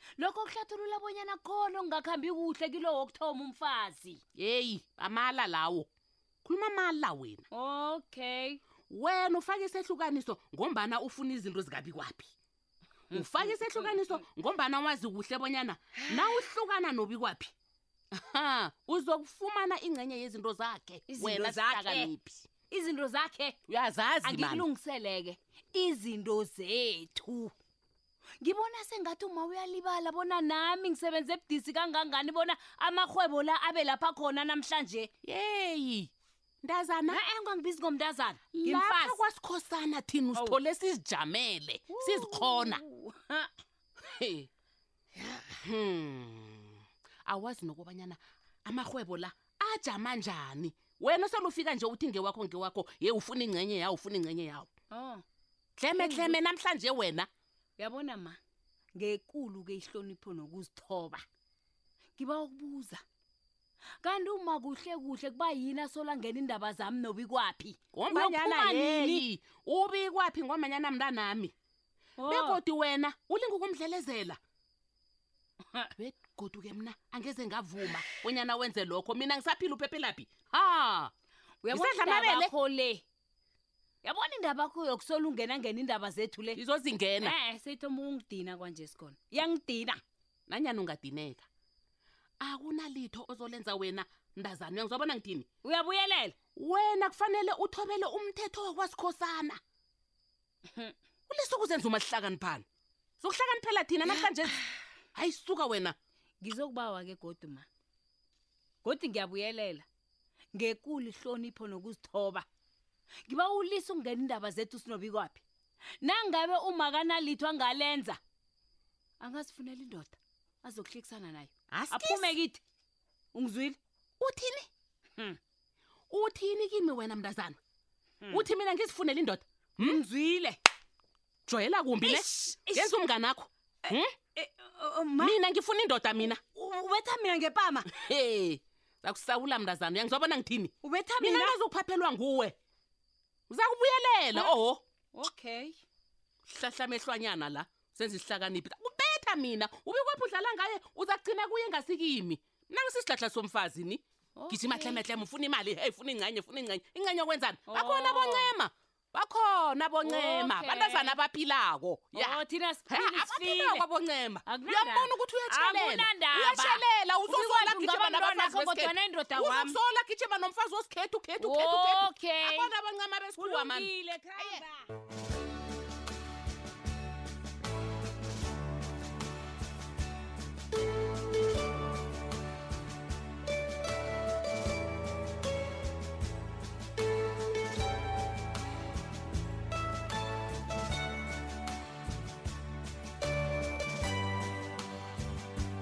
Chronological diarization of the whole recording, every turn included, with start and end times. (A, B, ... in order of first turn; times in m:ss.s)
0:00.2-0:04.2 A
0:04.4-0:05.9 B
0:06.4-0:07.4 B
0:07.5-0:08.6 A
0:08.9-0:12.3 B
0:13.1-0:14.2 A
0:13.1-0:17.5 B
0:16.0-0:16.4 A
0:18.2-0:22.4 B
0:21.1-0:23.6 A
0:23.7-0:24.6 B
0:24.2-0:27.5 A
0:28.4-0:35.1 A
0:35.2-0:37.2 B
0:37.1-0:39.2 A
0:38.5-0:42.8 B
0:40.3-0:40.6 A
0:41.9-0:43.5 A
0:44.0-0:44.5 B
0:45.6-0:54.7 B
0:54.9-0:55.2 A
0:55.8-0:57.3 B
0:56.0-0:56.4 A
0:57.8-0:58.4 A
0:58.9-1:01.2 A
1:02.2-1:03.0 A
1:04.0-1:09.2 A
1:07.9-1:11.5 B
1:12.2-1:12.6 A
1:12.2-1:14.4 B
1:16.0-1:21.1 B
1:21.6-1:23.0 A
1:21.7-1:22.5 B
1:24.0-1:26.6 A
1:26.5-1:27.3 B
1:27.2-1:30.0 A
1:30.5-1:31.5 B
1:32.4-1:35.5 B
1:35.6-1:36.4 A
1:36.5-1:39.6 B
1:41.3-1:42.6 B
1:43.2-1:44.6 B
1:45.1-1:46.0 B
1:46.4-1:47.6 A
1:48.8-1:49.8 A
1:50.5-1:52.4 A
1:53.3-1:55.4 A
1:56.0-1:58.2 A
1:59.2-2:02.6 A
2:01.7-2:02.4 B
2:03.3-2:03.8 A
2:04.2-2:04.7 B
2:06.1-2:07.6 B
2:08.2-2:08.5 A
2:08.3-2:10.0 B
2:09.8-2:10.6 A
2:11.5-2:14.1 B
2:12.0-2:12.9 A
2:13.8-2:15.4 A
2:15.2-2:16.4 B
2:16.2-2:18.1 A
2:17.9-2:22.6 B
2:20.8-2:21.6 A
2:23.5-2:24.8 B
2:25.1-2:25.8 A
2:26.5-2:54.6 B
2:34.4-2:35.0 A
2:37.7-2:38.5 A
2:40.0-2:41.2 A
2:42.1-2:43.8 A
2:44.4-2:49.8 A
2:51.4-2:52.7 A
2:53.4-2:54.9 A